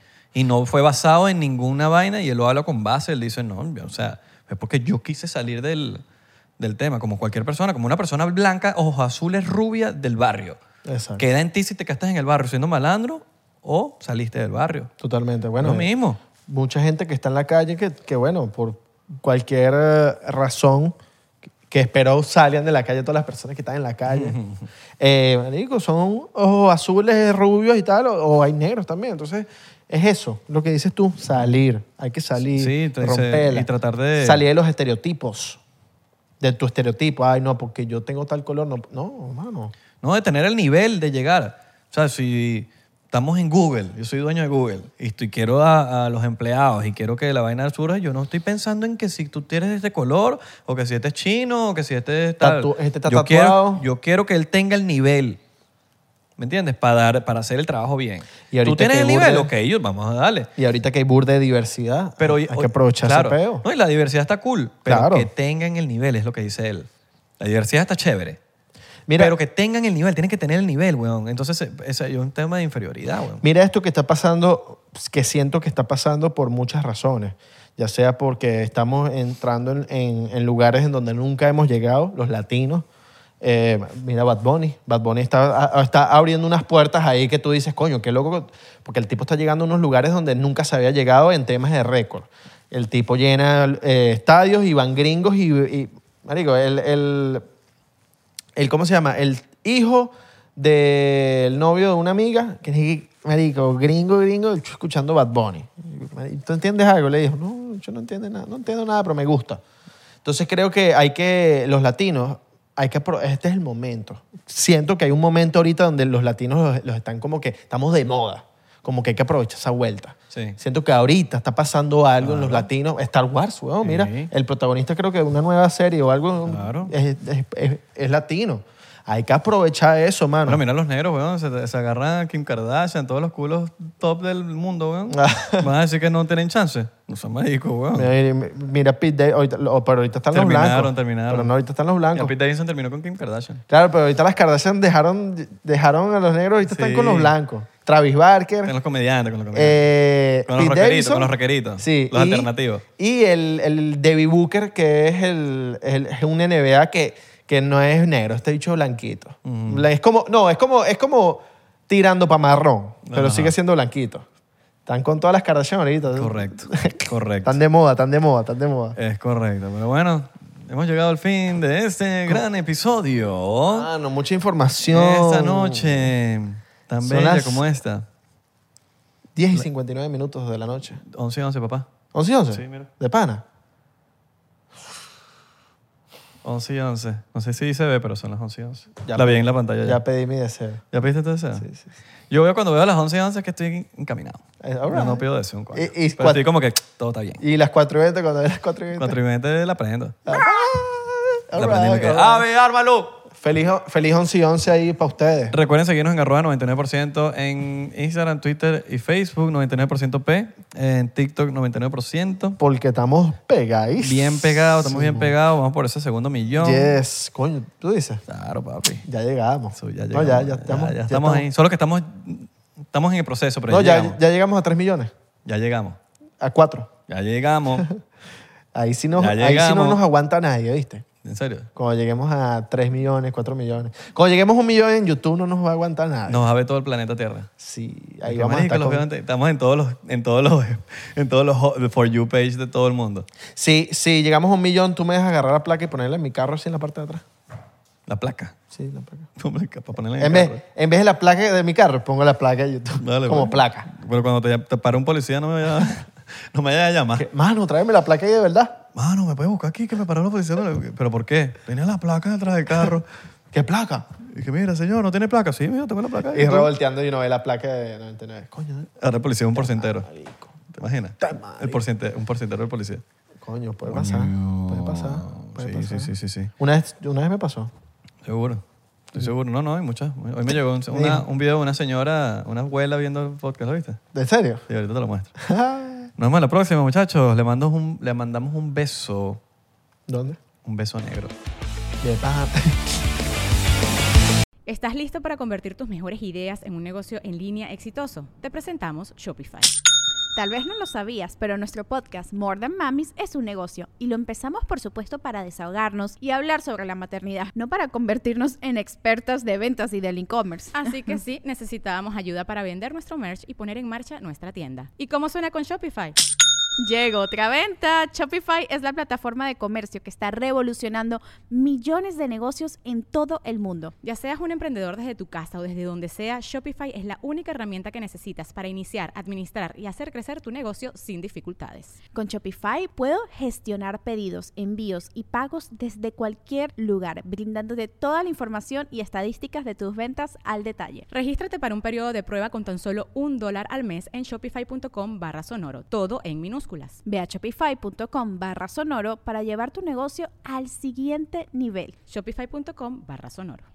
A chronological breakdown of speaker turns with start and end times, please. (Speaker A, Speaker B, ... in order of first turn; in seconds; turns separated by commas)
Speaker A: 0.3-6.0, Speaker A: 6.6-10.6, Speaker B: 10.8-11.2, Speaker A: 11.2-14.9, Speaker B: 15.0-15.9, Speaker A: 15.6-16.2, Speaker B: 16.5-20.9, Speaker B: 21.7-24.4, Speaker A: 24.1-24.7, Speaker B: 25.0-35.6, Speaker A: 32.5-34.4, Speaker B: 36.4-39.7, Speaker A: 40.0-55.4, Speaker B: 52.4-53.8, Speaker A: 56.4-60.5, Speaker B: 58.5-59.5, Speaker B: 60.6-63.6, Speaker A: 62.2-66.9, Speaker B: 64.9-65.3, Speaker A: 67.4-68.4, Speaker B: 69.1-69.3, Speaker A: 69.2-73.4, Speaker B: 73.4-82.9, Speaker B: 83.4-97.4, Speaker B: 98.5-109.6, Speaker B: 110.2-130.6, Speaker A: 120.3-120.6, Speaker A: 122.2-122.7, Speaker A: 123.8-124.3, Speaker A: 126.5-126.9, Speaker A: 130.4-138.1, Speaker B: 135.1-135.7, Speaker B: 137.9-142.3, Speaker A: 140.3-141.5, Speaker A: 142.1-143.6, Speaker B: 143.7-148.7, Speaker A: 146.6-147.3, Speaker A: 148.6-149.9, Speaker B: 149.5-164.2, Speaker A: 150.4-152.8, Speaker A: 159.4-159.9, Speaker A: 163.1-163.5, Speaker B: 164.8-169.0, Speaker A: 166.1-167.6, Speaker A: 168.9-173.9, Speaker B: 173.7-176.1, Speaker A: 174.9-178.1, Speaker B: 177.0-177.6, Speaker B: 179.3-181.0, Speaker A: 181.0-181.9, Speaker B: 182.1-183.4, Speaker A: 182.5-182.9, Speaker A: 186.4-190.0, Speaker B: 189.0-190.8, Speaker A: 190.9-191.7, Speaker B: 191.6-191.9, Speaker A: 192.3-197.4, Speaker B: 194.6-196.5, Speaker B: 197.4-199.2, Speaker A: 198.9-200.4, Speaker B: 200.3-202.4, Speaker A: 201.5-203.2, Speaker B: 203.3-205.6, Speaker A: 205.5-212.6, Speaker B: 212.6-215.3, Speaker A: 214.0-217.0, Speaker B: 216.6-218.2, Speaker A: 218.3-219.0, Speaker B: 219.0-221.4, Speaker A: 219.7-224.2, Speaker B: 223.7-225.1, Speaker A: 225.4-226.0, Speaker B: 226.4-226.9, Speaker A: 227.1-227.9, Speaker B: 228.7-231.0, Speaker A: 229.2-230.0, Speaker A: 231.2-231.7, Speaker B: 231.7-236.4, Speaker A: 236.3-237.5, Speaker B: 237.6-239.0, Speaker A: 238.2-243.3, Speaker B: 243.5-247.2, Speaker A: 248.1-248.5, Speaker B: 248.7-249.3, Speaker A: 249.4-250.6, Speaker B: 250.2-253.9, Speaker A: 253.0-257.2, Speaker B: 257.1-258.8, Speaker A: 258.9-263.1, Speaker B: 263.5-264.1, Speaker A: 264.2-266.7, Speaker B: 266.3-268.9, Speaker A: 269.0-270.1, Speaker B: 269.5-270.5, Speaker A: 270.7-273.0, Speaker B: 271.2-271.8, Speaker B: 273.4-277.7, Speaker A: 273.9-276.5, Speaker A: 278.2-284.0, Speaker B: 280.9-281.2, Speaker B: 284.1-284.6, Speaker A: 284.7-285.4, Speaker B: 285.4-286.1, Speaker A: 286.2-289.4, Speaker B: 290.1-290.4, Speaker A: 290.6-291.3, Speaker B: 292.0-292.9, Speaker C: 294.6-299.7, Speaker D: 300.3-310.8, Speaker C: 310.7-316.1, Speaker D: 316.8-323.9, Speaker C: 324.0-332.0, Speaker D: 332.1-341.1, Speaker C: 341.1-347.0, Speaker D: 347.0-351.9, Speaker C: 352.1-353.7